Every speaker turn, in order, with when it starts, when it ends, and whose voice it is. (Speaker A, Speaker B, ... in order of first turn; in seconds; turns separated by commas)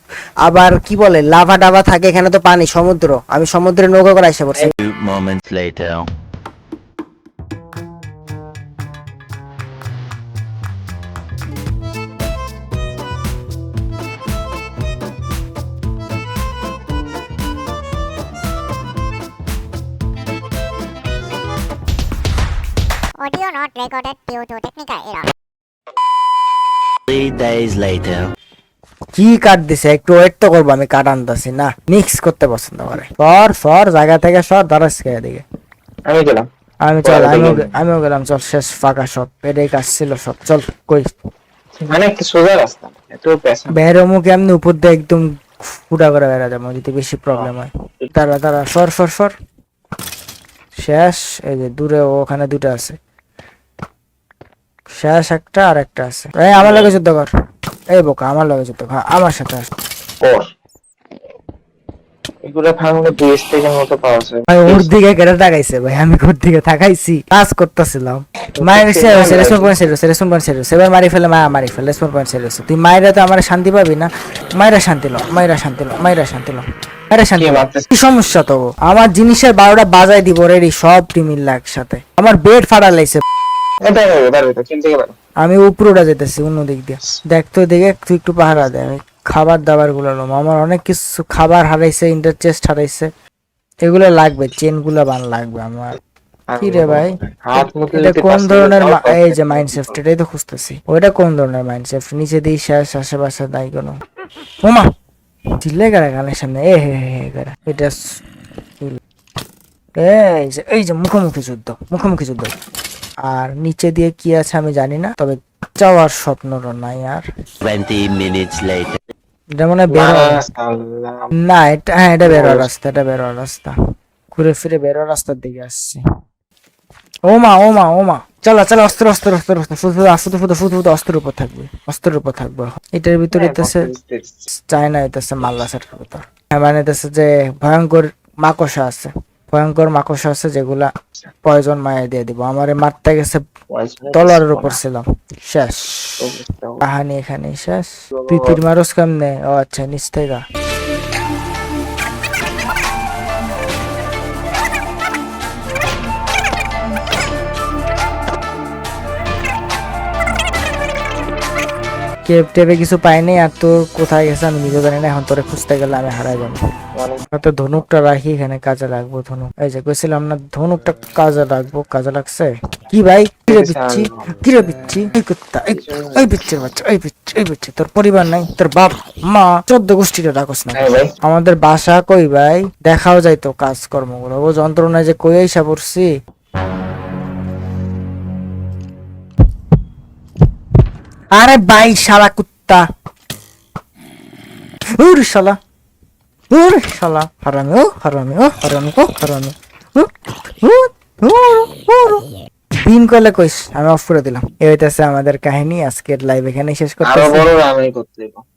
Speaker A: 0.5-4.7, Speaker B: 4.8-6.1, Speaker C: 23.2-25.3, Speaker B: 27.1-28.3, Speaker A: 29.1-35.4, Speaker D: 36.1-36.5, Speaker A: 36.9-41.1, Speaker D: 37.0-37.7, Speaker D: 41.8-43.8, Speaker A: 43.7-45.2, Speaker A: 45.8-49.3, Speaker A: 50.8-53.0, Speaker A: 55.0-57.3, Speaker D: 56.6-57.0, Speaker A: 57.9-59.7, Speaker D: 60.2-60.5, Speaker D: 62.4-64.9, Speaker A: 64.5-83.2, Speaker D: 68.6-69.8, Speaker D: 77.4-77.9, Speaker D: 83.8-85.2, Speaker A: 85.4-93.1, Speaker A: 93.9-96.0, Speaker D: 96.5-100.0, Speaker A: 96.6-104.0, Speaker A: 105.6-108.0, Speaker A: 110.0-112.5, Speaker A: 113.3-117.3, Speaker B: 117.6-119.0, Speaker A: 119.6-120.4, Speaker D: 119.9-121.3, Speaker A: 121.4-123.8, Speaker D: 122.2-122.7, Speaker A: 124.3-126.0, Speaker A: 127.3-133.9, Speaker D: 133.3-134.4, Speaker A: 134.5-140.9, Speaker A: 141.4-143.4, Speaker D: 143.7-144.8, Speaker A: 144.1-146.2, Speaker D: 146.2-146.8, Speaker A: 146.8-150.4, Speaker D: 148.1-148.6, Speaker A: 162.3-166.6, Speaker D: 166.9-167.2, Speaker A: 167.3-186.1, Speaker D: 173.5-175.0, Speaker D: 175.7-176.4, Speaker D: 180.7-181.1, Speaker A: 191.3-192.8, Speaker A: 195.0-195.6, Speaker A: 196.5-200.1, Speaker A: 200.6-202.2, Speaker A: 202.8-207.5, Speaker D: 207.0-208.4